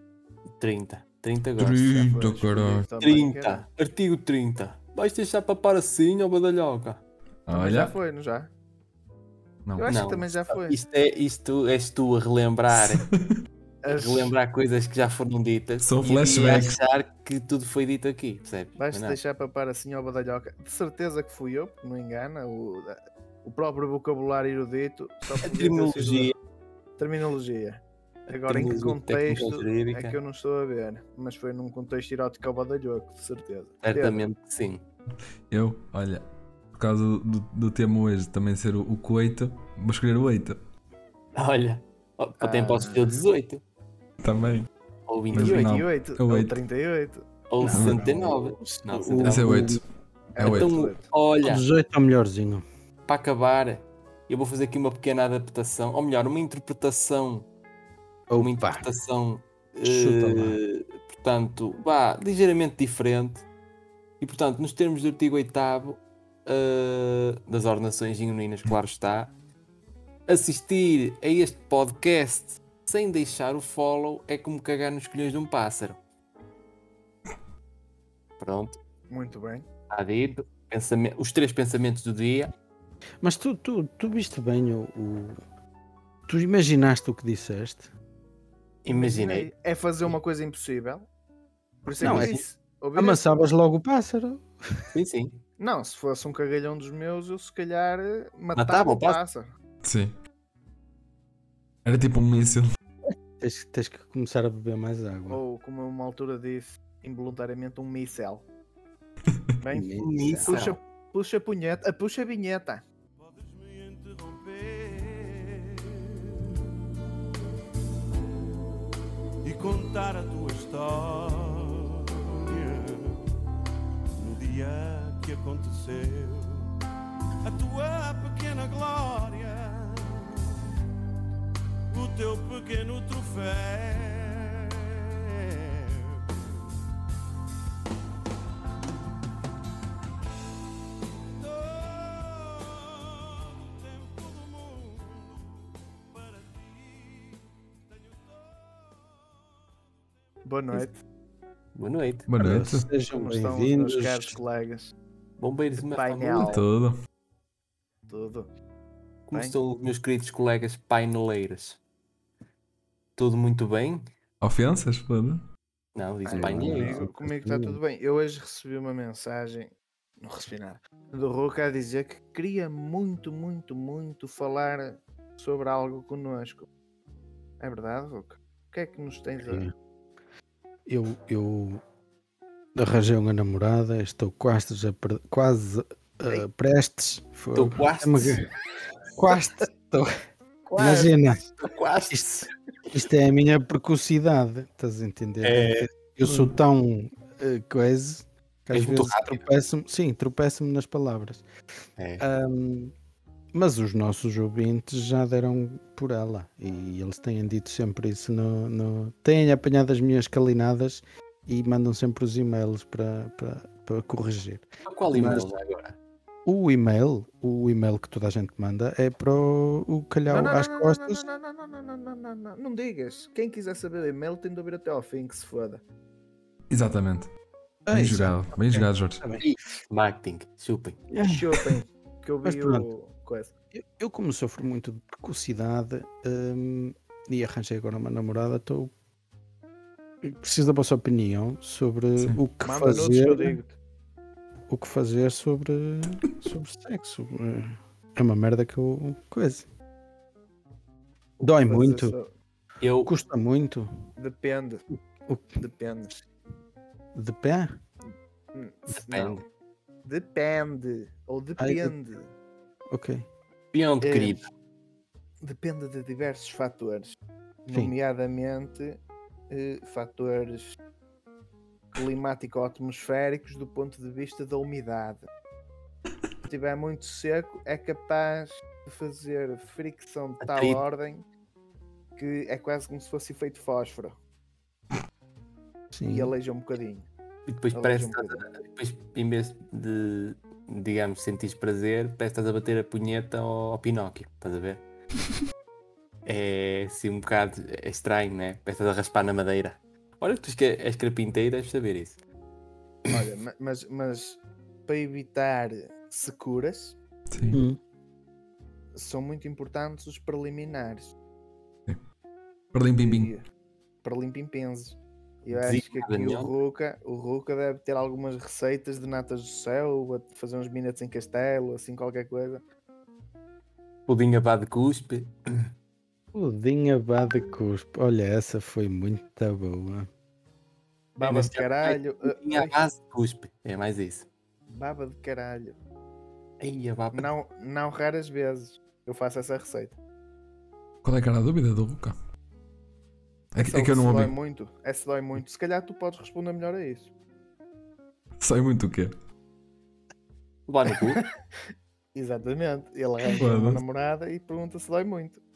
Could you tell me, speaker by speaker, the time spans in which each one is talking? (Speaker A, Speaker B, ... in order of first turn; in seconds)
Speaker A: 0.6-2.1, 3.0-7.0, 9.9-13.0, 13.9-19.2, 25.4-26.4, 28.3-30.2, 33.8-34.8, 41.4-43.6, 45.1-45.8, 47.5-49.7, 50.4-51.6, 53.0-57.5, 58.4-63.5, 64.2-69.3, 70.3-76.0, 78.4-78.8, 79.9-82.5, 88.8-89.5, 92.0-92.4, 94.9-95.4, 98.5-99.2, 110.0-110.8, 151.7-152.3, 155.4-156.6, 159.3-161.8, 163.2-164.0, 165.9-167.0, 187.5-188.4, 191.6-192.5, 195.4-195.9, 198.7-199.4, 202.0-202.2, 214.8-215.9, 229.4-231.0, 252.8-253.1, 258.9-259.4, 263.7-264.5, 280.4-280.8, 287.5-294.8, 296.2-302.2, 315.5-316.5, 324.1-325.3, 331.2-334.2, 336.6-337.3, 350.7-351.2
Speaker B: 1.6-2.9, 7.5-7.9, 12.7-13.3, 15.8-16.8, 35.5-40.6, 44.2-44.7, 45.3-46.5, 47.7-48.1, 49.2-49.8, 50.4-50.7, 99.8-100.2, 101.8-102.7, 152.3-152.9, 156.4-156.9, 164.4-165.4, 226.7-227.3, 227.9-229.2, 307.3-307.6, 312.7-313.3, 341.0-342.1, 343.5-344.3, 348.4-349.1, 353.4-353.8
Speaker C: 1.9-3.6, 7.5-8.5, 9.8-10.8, 13.8-14.3, 18.8-26.3, 27.0-34.2, 42.4-43.2, 45.4-47.2, 50.3-51.1, 79.1-79.7, 88.9-91.1, 91.8-93.4, 95.6-99.5, 105.3-108.5, 109.6-112.8, 150.4-151.0, 153.1-154.9, 155.9-156.6, 158.1-158.5, 166.2-176.7, 177.6-179.7, 190.7-191.1, 220.3-225.8, 231.2-233.5, 242.6-243.7, 251.4-252.3, 254.2-254.8, 255.6-256.1, 258.5-259.4, 260.0-262.3, 264.0-264.4, 265.4-267.1, 267.6-270.7, 271.9-275.2, 276.5-281.2, 282.1-284.2, 286.1-287.1, 287.7-288.4, 303.1-306.9, 308.9-311.1, 312.8-313.4, 314.0-322.6, 331.2-332.8, 334.7-335.8, 337.1-339.9, 343.6-347.1, 352.1-355.4
Speaker D: 47.6-49.8, 51.4-52.6, 58.3-58.9, 59.8-60.6, 83.2-85.4, 86.3-87.9, 92.0-92.4, 93.0-94.5, 103.4-105.4, 109.7-110.6, 152.4-154.3, 166.4-167.8, 179.4-179.7, 180.8-181.8, 182.7-188.5, 189.2-190.1, 190.8-191.4, 192.1-201.4, 202.2-202.9, 203.5-215.5, 216.4-221.2, 227.9-229.4, 231.1-231.7, 232.4-232.9, 233.7-238.9, 240.2-243.6, 244.7-249.7, 251.4-252.1, 253.0-253.9, 255.2-255.6, 257.1-257.7, 261.6-261.9, 262.9-263.3, 285.9-286.3, 307.5-307.8, 326.3-330.1
Speaker E: 113.2-116.0, 119.4-123.2, 124.2-126.7, 127.4-130.5, 131.9-136.1, 141.4-149.7